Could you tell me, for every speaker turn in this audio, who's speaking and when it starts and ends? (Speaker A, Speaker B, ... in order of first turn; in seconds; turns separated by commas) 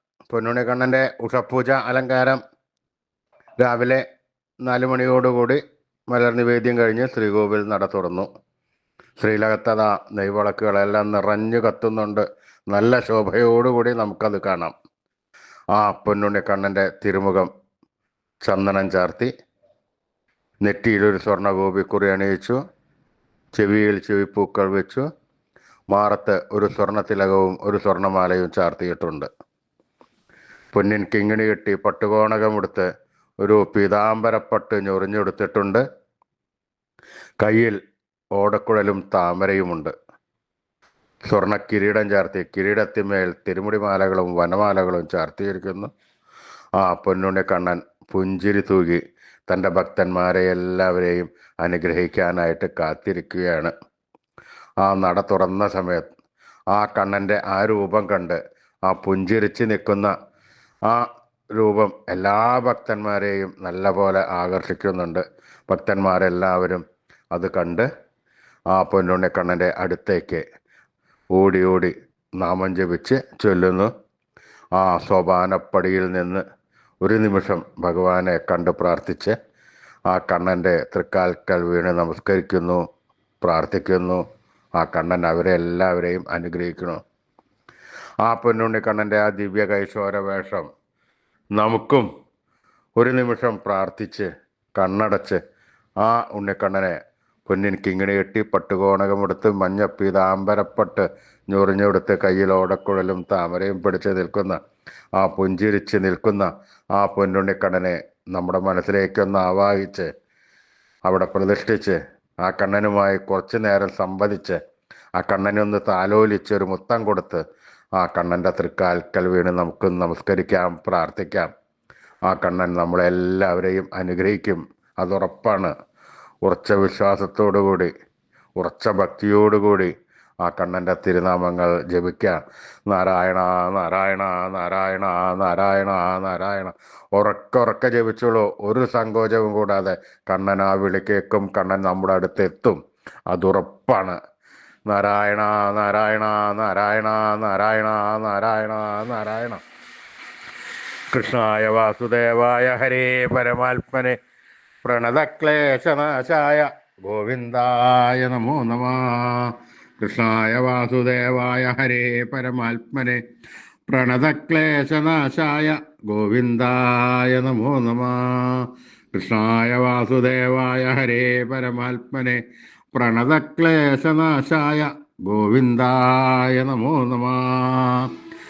Speaker A: 0.3-2.4, Speaker A: 3.6-4.0, Speaker A: 4.6-8.3, Speaker A: 9.2-14.7, Speaker A: 15.7-17.5, Speaker A: 18.4-19.3, Speaker A: 20.6-22.6, Speaker A: 23.5-25.1, Speaker A: 25.9-29.3, Speaker A: 30.7-32.9, Speaker A: 33.4-35.8, Speaker A: 37.4-37.8, Speaker A: 38.3-39.9, Speaker A: 41.3-45.9, Speaker A: 46.8-53.7, Speaker A: 54.8-56.1, Speaker A: 56.7-60.1, Speaker A: 60.9-67.8, Speaker A: 68.7-70.4, Speaker A: 71.3-73.9, Speaker A: 74.7-76.4, Speaker A: 77.0-79.3, Speaker A: 80.1-82.8, Speaker A: 83.4-84.2, Speaker A: 84.8-87.0, Speaker A: 88.2-90.7, Speaker A: 91.5-92.1, Speaker A: 93.0-95.4, Speaker A: 96.0-104.6, Speaker A: 105.2-110.1, Speaker A: 111.0-114.6, Speaker A: 115.2-117.4, Speaker A: 118.0-121.5, Speaker A: 122.3-125.7, Speaker A: 126.4-127.9, Speaker A: 128.6-142.8, Speaker A: 143.3-144.2, Speaker A: 144.9-149.6, Speaker A: 151.1-154.2, Speaker A: 154.8-163.2, Speaker A: 163.9-172.4, Speaker A: 172.9-178.1